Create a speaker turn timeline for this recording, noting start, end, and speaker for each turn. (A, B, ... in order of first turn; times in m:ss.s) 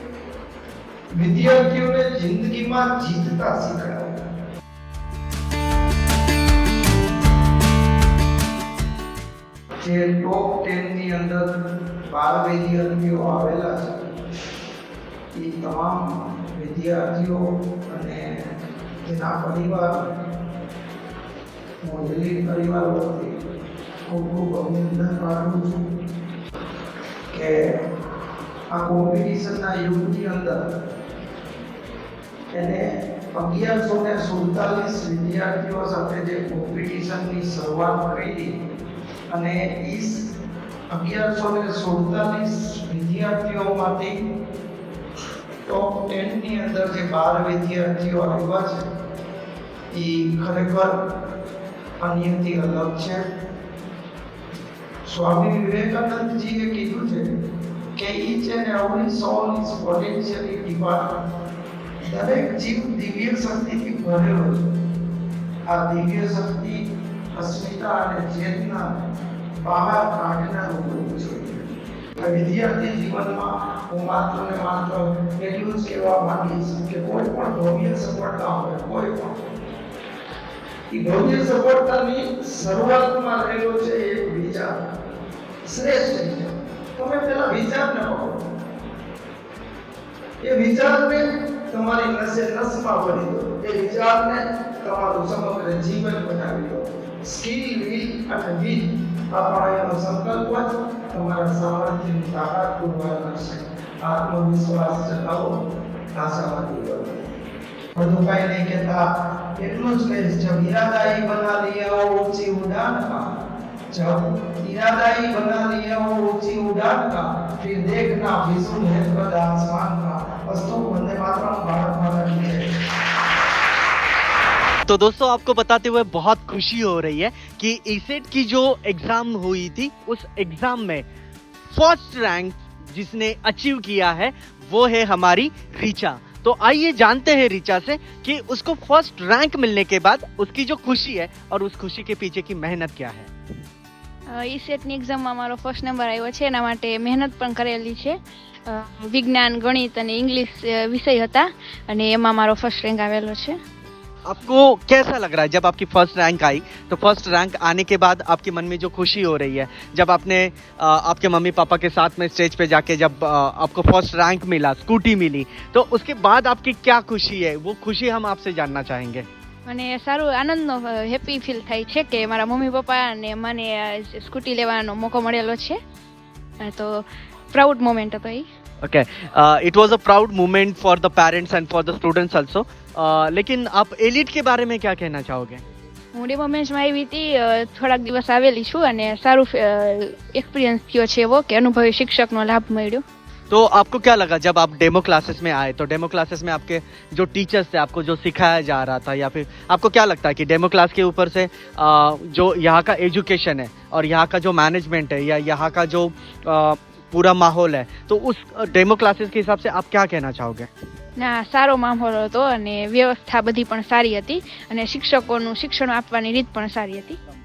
0:01.2-0:04.2 A
0:09.8-0:11.4 A
0:12.1-0:14.0 A
0:15.3-0:18.3 A
0:19.0-0:20.0 A
0:21.8-0:23.3 A
0:24.0-0:25.8 A
0:28.7-0:30.6 A
0:32.5-0:38.5 A
0:39.3-0:40.2 A
0:40.9-0:44.2 A
0:45.6-0:48.8 A
0:49.9-0:50.9 A
0:52.0-0:53.2 A
0:55.1-0:57.3 A
0:58.0-1:01.2 A
1:02.0-1:04.7 A
1:05.7-1:06.8 A
1:07.4-1:09.0 A
1:09.6-1:11.6 A
1:12.2-1:19.4 A
1:20.9-1:24.7 A
1:25.6-1:28.4 A
1:30.4-1:45.5 A
1:46.1-1:47.1 A
1:47.9-1:49.0 A
1:49.6-1:53.2 A
1:53.9-2:02.6 A
2:04.9-2:11.0 B
2:11.7-2:23.3 B
2:24.3-2:28.1 C
2:28.7-2:33.6 C
2:34.3-2:49.2 B
2:49.7-2:55.8 C
2:56.6-2:57.0 C
2:57.5-2:58.4 C
2:58.8-3:05.6 B
3:06.1-3:13.0 C
3:13.5-3:30.7 B
3:31.2-3:37.2 C